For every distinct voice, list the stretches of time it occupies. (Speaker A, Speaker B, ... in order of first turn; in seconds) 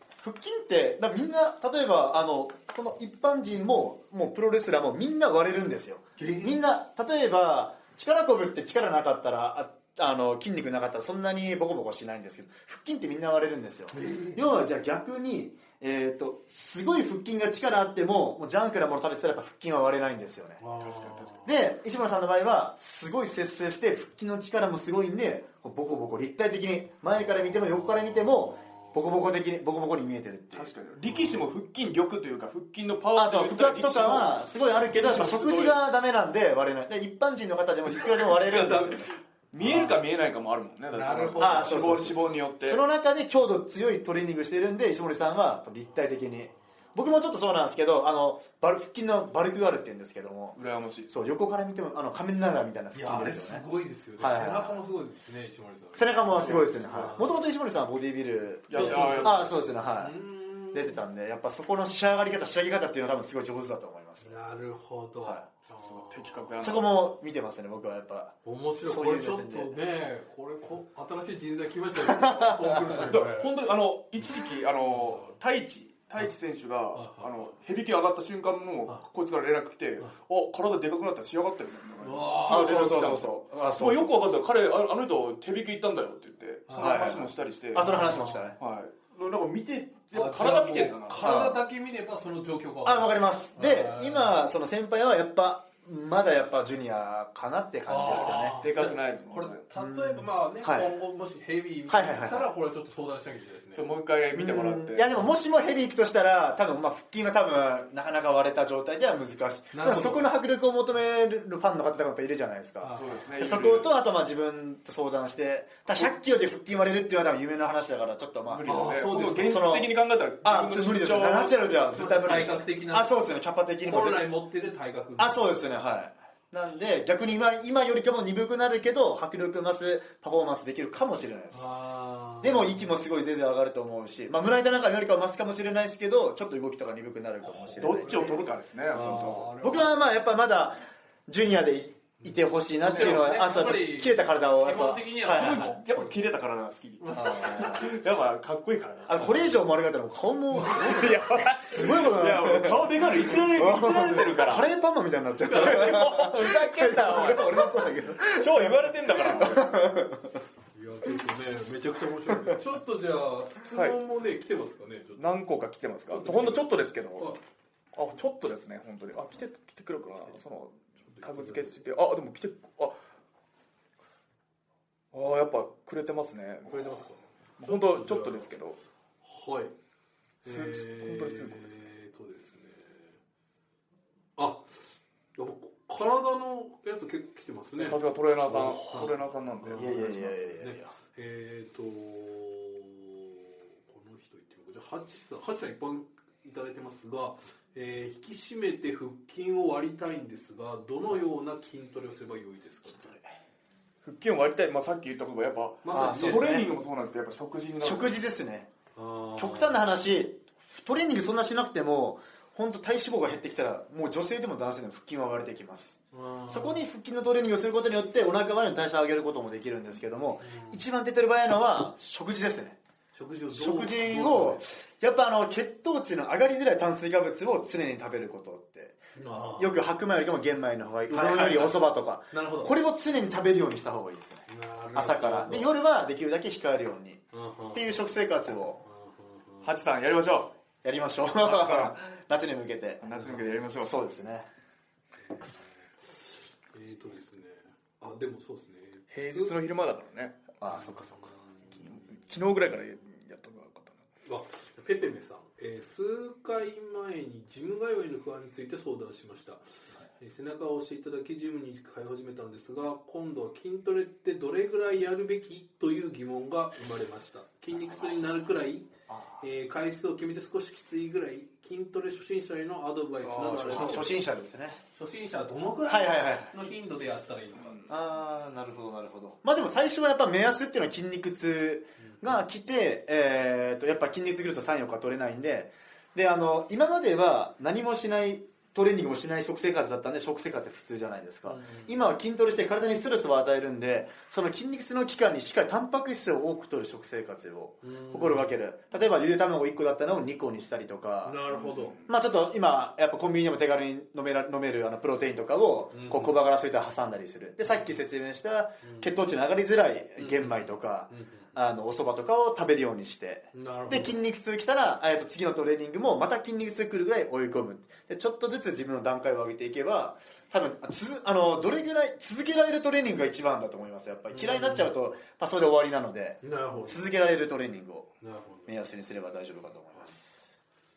Speaker A: 0.2-20.6, 21.4-30.7, 33.1-39.1, 41.4-50.6, 51.1-53.6, 54.2-54.8, 56.0-60.2, 60.7-64.3, 66.6-69.7, 72.0-73.0, 82.5-84.1, 86.8-88.6, 91.2-91.6, 92.8-98.6, 99.7-100.9, 101.9-102.5, 104.3-118.8, 119.4-124.2, 125.2-131.6, 132.4-138.3, 139.2-145.7, 147.1-147.8, 149.1-160.4, 188.6-188.9, 189.8-190.9, 205.9-206.7, 207.8-208.7, 209.4-216.0, 216.5-222.8, 223.5-229.0, 229.6-237.2, 237.7-238.8, 240.8-243.1, 243.8-244.5, 250.6-251.3, 269.1-269.3, 273.7-274.8, 275.9-276.6, 277.9-301.4, 302.1-328.1, 328.7-330.2
Speaker B: 6.2-6.6, 13.9-14.5, 20.6-21.5, 27.7-29.0, 31.1-31.4, 37.9-40.0, 40.9-42.1, 52.9-57.3, 58.7-61.0, 64.2-66.5, 68.4-73.5, 74.9-75.3, 76.9-77.3, 82.0-83.0, 86.7-87.2, 87.8-88.5, 90.1-94.5, 97.9-104.0, 109.7-110.3, 112.8-113.2, 118.7-119.6, 121.9-123.1, 123.8-125.5, 131.5-132.9, 137.4-138.4, 138.9-140.0, 142.2-146.2, 147.0-147.9, 150.5-151.4, 160.7-165.2, 166.1-167.4, 171.1-171.8, 176.7-178.5, 179.2-179.7, 180.4-183.1, 184.4-203.1, 205.8-206.7, 208.9-209.9, 216.1-216.8, 220.4-220.8, 223.1-224.7, 229.1-229.8, 231.1-232.7, 234.5-235.7, 237.3-238.0, 238.8-239.7, 243.1-243.5, 245.3-249.6, 250.7-251.8, 254.2-259.6, 260.2-274.1, 274.9-277.9, 291.4-292.0, 297.8-298.6, 301.2-302.0, 305.9-306.4, 308.8-309.1, 310.2-311.6, 313.5-314.2, 324.3-324.9, 326.4-327.1, 328.2-328.7
Speaker C: 20.8-21.4, 30.5-35.8, 39.5-42.8, 50.5-51.1, 56.4-57.2, 58.7-59.5, 65.8-66.9, 72.9-88.0, 88.6-91.4, 98.1-99.6, 103.8-105.1, 113.0-113.9, 118.5-121.8, 137.8-139.5, 142.9-143.3, 145.3-149.5, 150.9-154.7, 155.4-159.8, 165.2-167.3, 167.9-173.0, 175.1-177.0, 177.6-178.8, 180.4-181.8, 187.8-190.3, 204.0-208.2, 239.6-240.5, 241.4-242.0, 243.0-244.1, 249.1-250.4, 251.8-254.0, 273.2-274.2, 301.7-302.0